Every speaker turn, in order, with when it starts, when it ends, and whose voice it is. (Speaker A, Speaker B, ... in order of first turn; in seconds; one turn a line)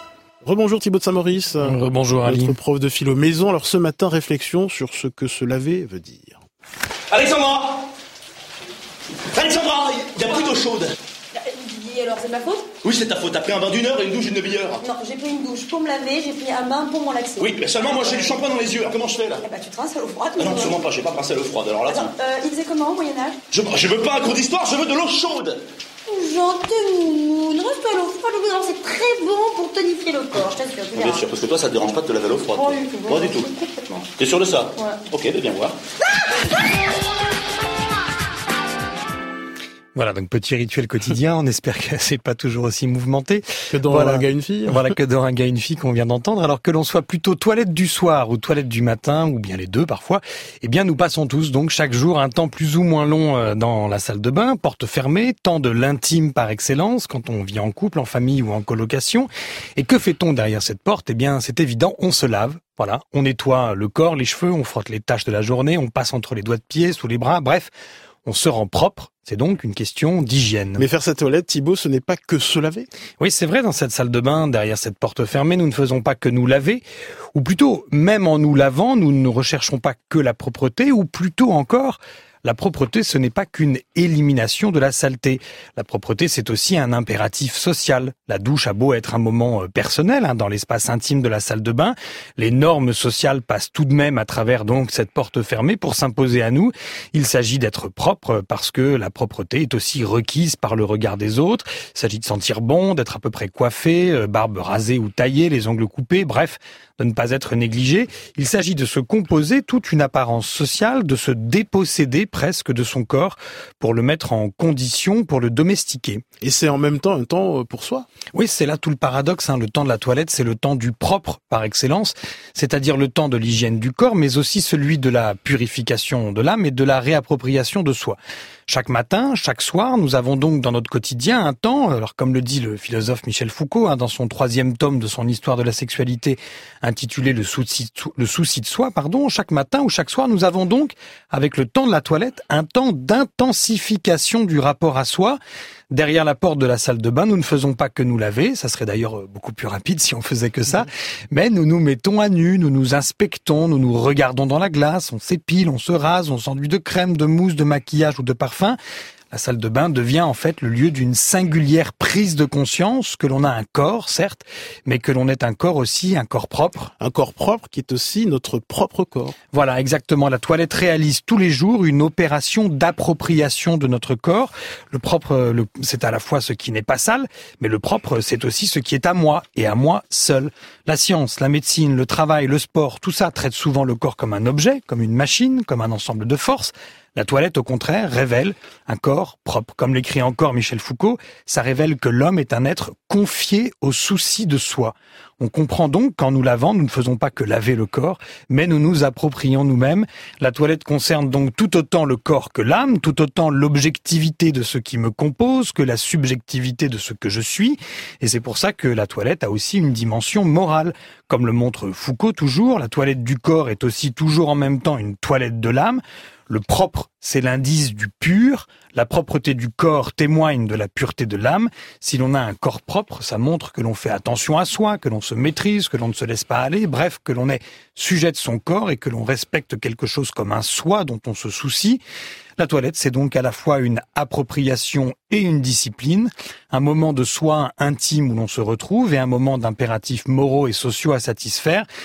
Speaker A: 0.4-6.4
Speaker B: 1.6-2.6
Speaker C: 7.1-7.8
Speaker C: 9.3-10.9
Speaker D: 11.3-12.7
Speaker C: 12.8-14.8
Speaker D: 14.8-18.3
Speaker C: 17.4-19.4
Speaker D: 19.4-20.8
Speaker C: 20.4-22.1
Speaker D: 21.9-23.4
Speaker C: 23.5-25.6
Speaker D: 26.1-31.3
Speaker C: 31.0-35.8
Speaker D: 32.5-34.0
Speaker B: 40.0-67.7
Speaker A: 43.7-45.0
Speaker B: 68.2-70.8
Speaker A: 70.8-72.9
Speaker B: 73.2-76.8
Speaker B: 77.3-116.2
Speaker A: 116.4-118.1
Speaker B: 118.3-145.4
Speaker B: 145.9-158.8
Speaker B: 159.3-166.9
Speaker A: 167.0-169.3
Speaker B: 169.5-232.0
Speaker B: 232.6-241.9